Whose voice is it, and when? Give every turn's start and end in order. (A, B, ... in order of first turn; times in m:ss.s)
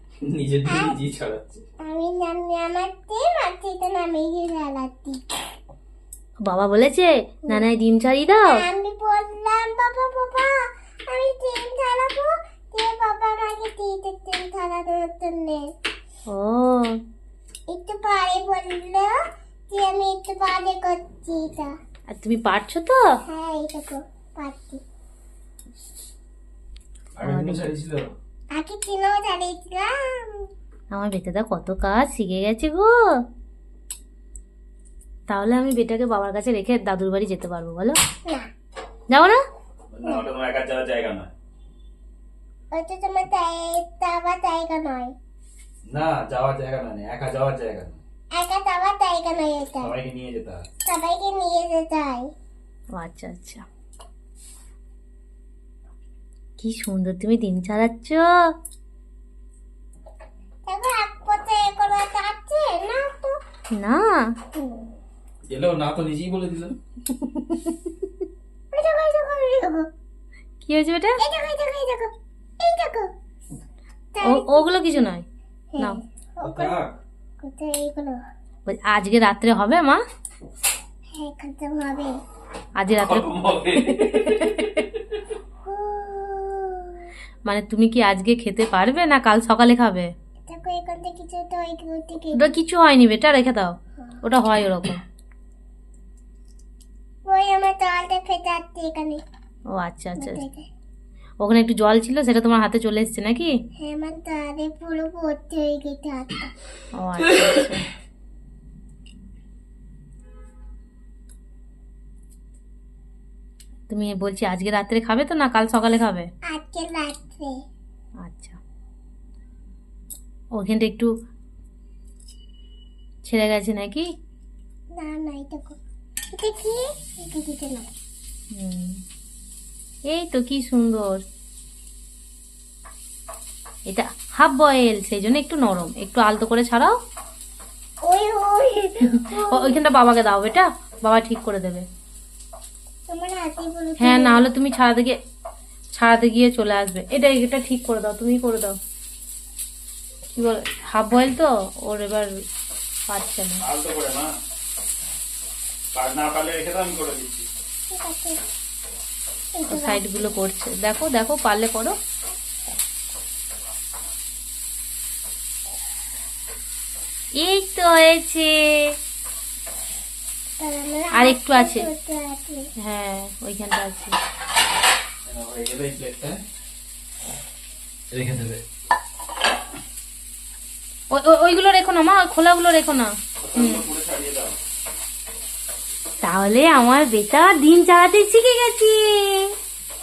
0:00.2-0:01.6 A
0:00.6-0:01.0 B
0:01.8-0:05.2 B
0:06.4-0:08.6 C
0:08.4-0:10.5 B
0:11.1-0:15.7 B
0:16.3-0:17.0 C
0:17.7-0:19.1 B
0:19.7-0:21.7 B
0:22.1-0:23.2 C
0:23.2-0:24.8 B
0:27.2-0:28.1 A
0:27.2-0:27.7 C
0:28.5-0:30.5 B
0:30.9-0:33.2 C
0:35.3-0:38.0 C
0:39.1-0:39.4 C
0:39.9-0:41.3 A
0:42.7-0:45.1 B
0:45.8-0:48.0 A
0:48.3-0:49.9 B
0:49.8-0:50.6 A
0:50.8-0:52.3 B
0:52.9-0:53.6 C
0:56.6-0:58.5 C
1:00.7-1:03.4 B
1:03.7-1:04.4 C
1:04.5-1:05.0 B
1:05.5-1:06.8 A
1:08.7-1:09.9 B
1:10.6-1:11.2 C
1:11.2-1:13.1 B
1:14.1-1:15.0 B
1:14.2-1:15.2 C
1:15.7-1:16.8 B
1:16.4-1:16.9 A
1:17.4-1:18.2 B
1:18.6-1:20.0 C
1:21.1-1:22.2 B
1:22.8-1:24.8 C
1:23.0-1:25.0 A
1:25.6-1:27.1 B
1:27.4-1:30.1 C
1:30.5-1:32.5 B
1:32.3-1:35.0 C
1:37.2-1:39.2 B
1:39.7-1:40.4 C
1:40.2-1:40.7 B
1:41.4-1:43.5 C
1:43.8-1:46.5 B
1:47.0-1:47.9 C
1:53.9-1:56.3 C
1:56.5-1:57.5 B
1:58.2-1:58.6 C
2:00.5-2:01.1 C
2:03.2-2:04.1 C
2:04.9-2:05.8 B
2:06.3-2:07.9 B
2:08.5-2:09.0 C
2:10.1-2:11.2 C
2:13.8-2:17.0 C
2:18.0-2:19.8 B
2:19.1-2:21.8 C
2:23.1-2:24.5 B
2:24.0-2:25.2 C
2:25.9-2:28.8 C
2:30.3-2:32.3 C
2:33.1-2:33.6 C
2:33.6-2:34.3 A
2:35.9-2:37.4 A
2:37.9-2:38.4 B
2:39.5-2:40.2 B
2:39.7-2:41.9 C
2:47.4-2:48.9 C
2:50.6-2:52.6 B
2:51.1-2:51.9 C
2:52.8-2:54.2 C
2:55.3-2:56.4 A
2:58.1-2:58.6 A
3:01.1-3:03.8 C
3:03.4-3:04.6 A
3:06.2-3:09.5 C